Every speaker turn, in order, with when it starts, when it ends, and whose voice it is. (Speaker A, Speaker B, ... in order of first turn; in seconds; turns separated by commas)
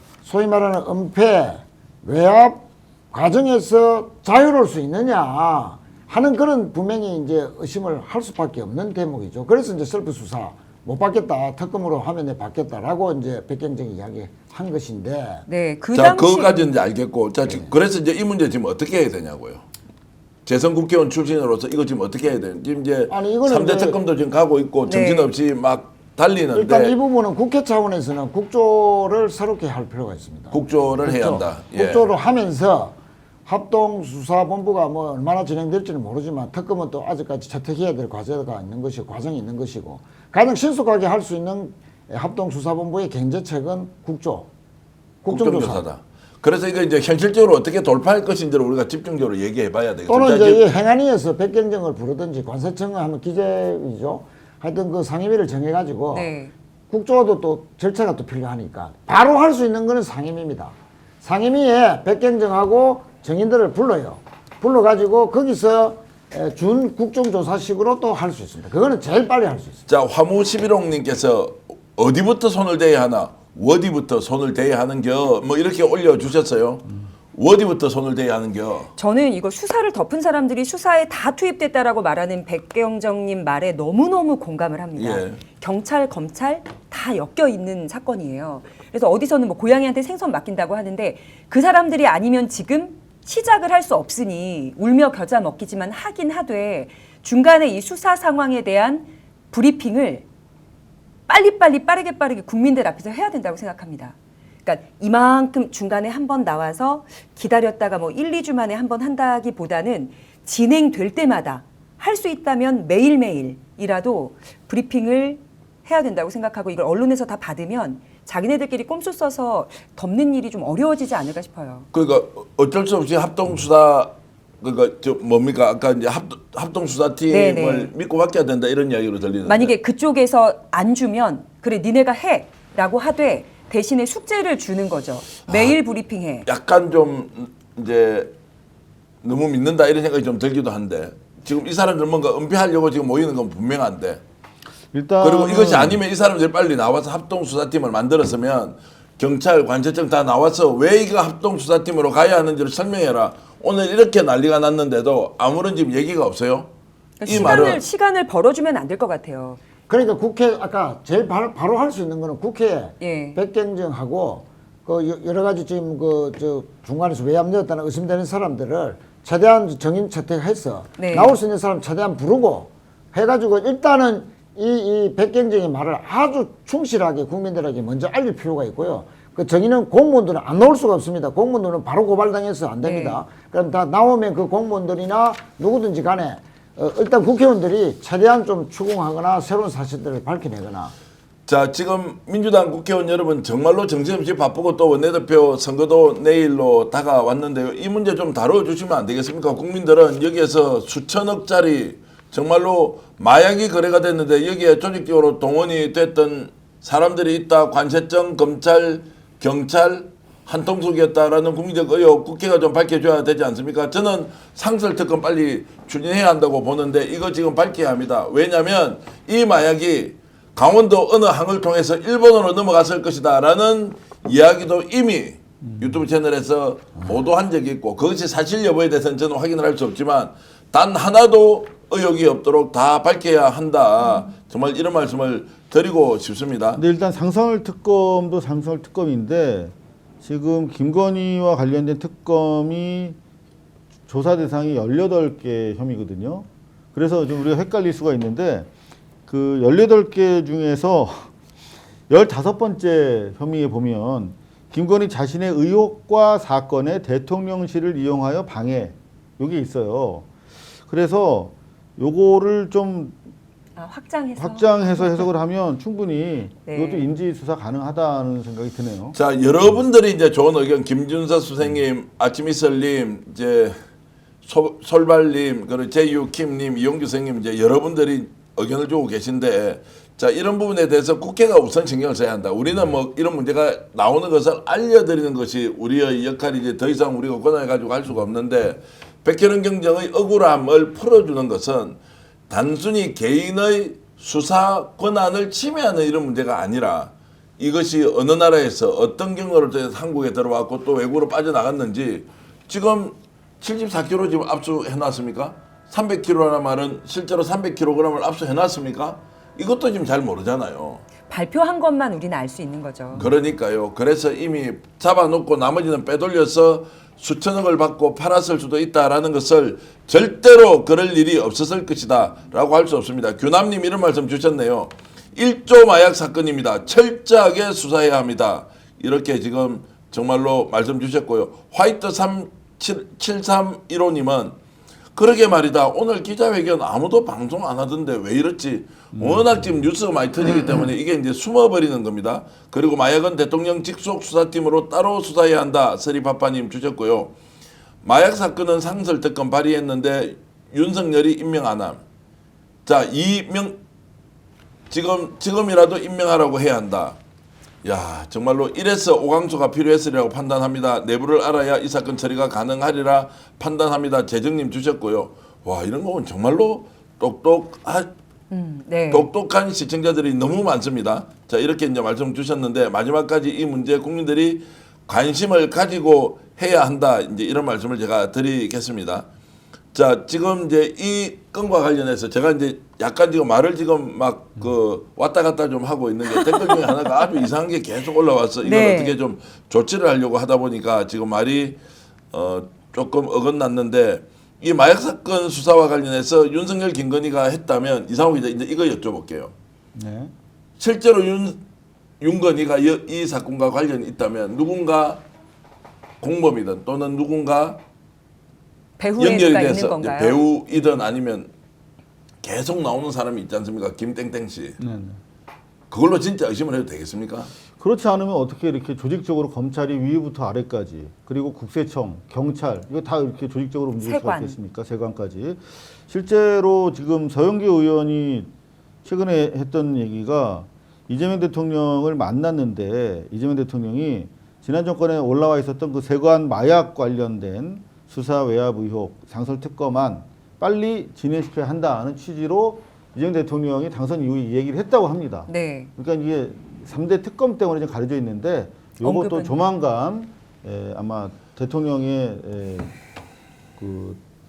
Speaker A: 0.2-15.4, Speaker B: 15.5-16.7, Speaker C: 15.9-19.6, Speaker A: 17.5-17.7, Speaker C: 20.4-26.9, Speaker A: 23.1-24.0, Speaker B: 24.9-25.3, Speaker A: 26.5-44.5, Speaker C: 30.5-32.1, Speaker A: 45.2-45.9, Speaker C: 45.3-50.6, Speaker A: 50.1-56.3, Speaker B: 56.1-56.5, Speaker A: 56.9-69.8, Speaker C: 69.9-78.9, Speaker B: 79.0-100.2, Speaker C: 85.0-85.4, Speaker B: 101.3-121.9, Speaker C: 121.9-129.7, Speaker B: 127.3-127.9, Speaker B: 129.4-136.5, Speaker C: 135.5-135.7, Speaker C: 136.5-138.3, Speaker C: 139.2-144.2, Speaker D: 144.9-146.0, Speaker C: 145.2-156.7, Speaker B: 157.2-159.6, Speaker C: 157.2-157.9, Speaker A: 159.9-190.9, Speaker B: 163.0-163.4, Speaker B: 171.0-171.4, Speaker B: 182.8-183.2, Speaker C: 191.5-236.8, Speaker D: 225.7-226.0, Speaker D: 236.8-243.2, Speaker D: 244.1-248.7, Speaker D: 249.3-251.3, Speaker D: 252.1-260.3, Speaker D: 260.9-263.2, Speaker B: 263.8-265.3, Speaker D: 264.4-269.2, Speaker B: 266.7-267.1, Speaker C: 269.1-273.8, Speaker C: 274.4-292.0, Speaker C: 292.5-311.0, Speaker B: 311.3-313.2, Speaker C: 313.1-334.6, Speaker C: 335.1-347.4, Speaker D: 339.2-339.6, Speaker C: 348.0-352.0, Speaker C: 352.9-353.8, Speaker C: 354.9-357.2, Speaker C: 357.8-368.1, Speaker B: 368.5-369.3, Speaker C: 369.1-379.3, Speaker C: 379.9-391.8, Speaker B: 386.3-386.7, Speaker B: 388.6-389.2, Speaker C: 392.3-399.5, Speaker D: 399.9-400.3, Speaker C: 400.8-401.6, Speaker C: 402.2-405.2, Speaker C: 406.2-407.8, Speaker B: 409.0-410.4, Speaker C: 409.2-411.5, Speaker C: 412.4-414.8, Speaker D: 414.8-415.2, Speaker C: 415.9-417.5, Speaker D: 417.8-428.5, Speaker B: 424.0-424.6, Speaker D: 429.1-452.9, Speaker B: 445.5-445.9, Speaker B: 449.0-449.6, Speaker D: 453.8-454.2